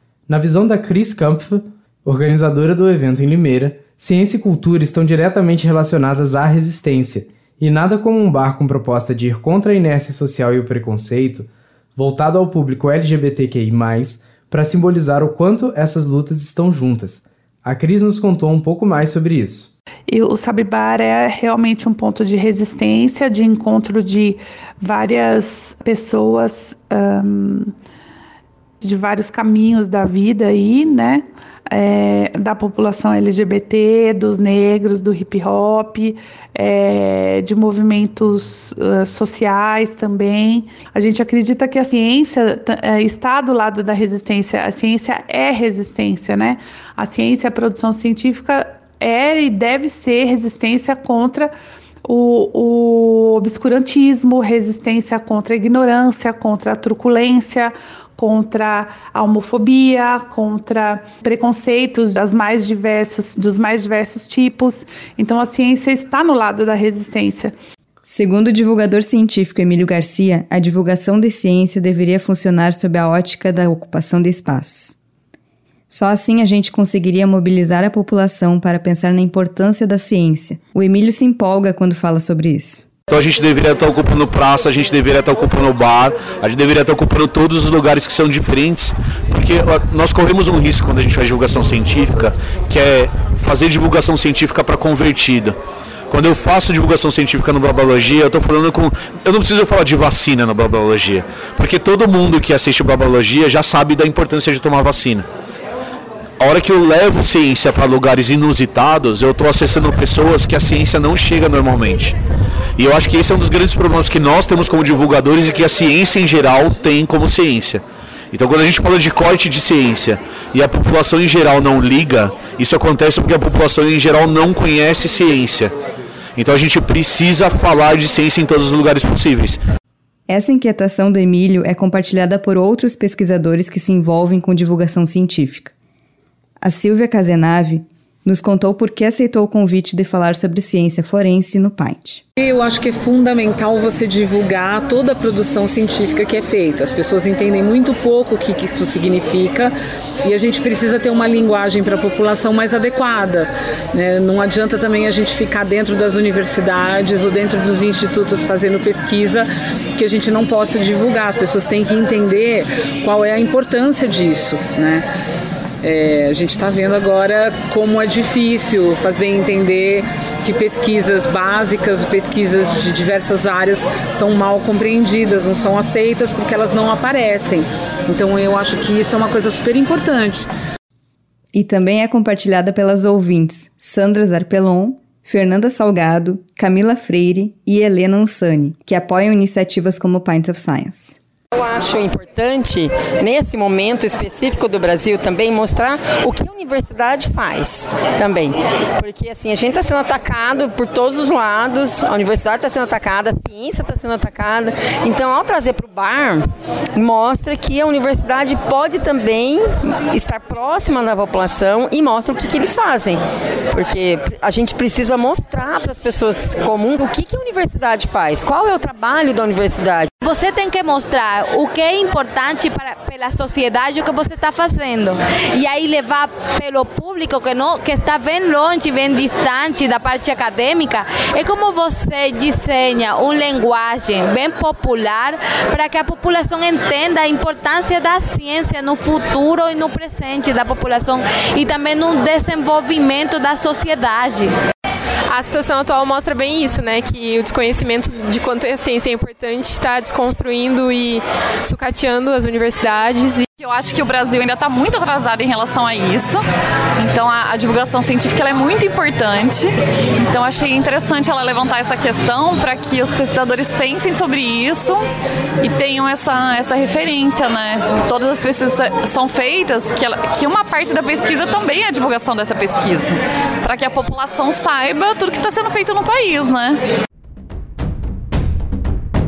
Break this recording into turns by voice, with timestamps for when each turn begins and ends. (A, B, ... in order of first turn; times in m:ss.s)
0:00.3-0:19.7 A
0:20.1-0:27.7 B
0:28.8-0:51.5 B
0:52.0-1:07.6 B
1:08.0-1:15.0 C
1:15.9-1:22.9 C
1:23.1-1:35.6 D
1:36.1-1:45.3 D
1:46.4-1:52.2 D
1:52.8-2:05.7 D
2:06.4-2:09.6 D
2:10.3-2:15.7 C
2:16.6-2:22.2 C
2:22.4-2:45.1 E
2:45.8-3:00.5 E
3:01.5-3:11.2 C
3:11.5-3:40.1 F
3:40.2-4:04.6 G
4:05.3-4:13.5 H
4:13.6-4:16.4 I
4:17.0-4:25.0 I
4:25.6-4:36.8 I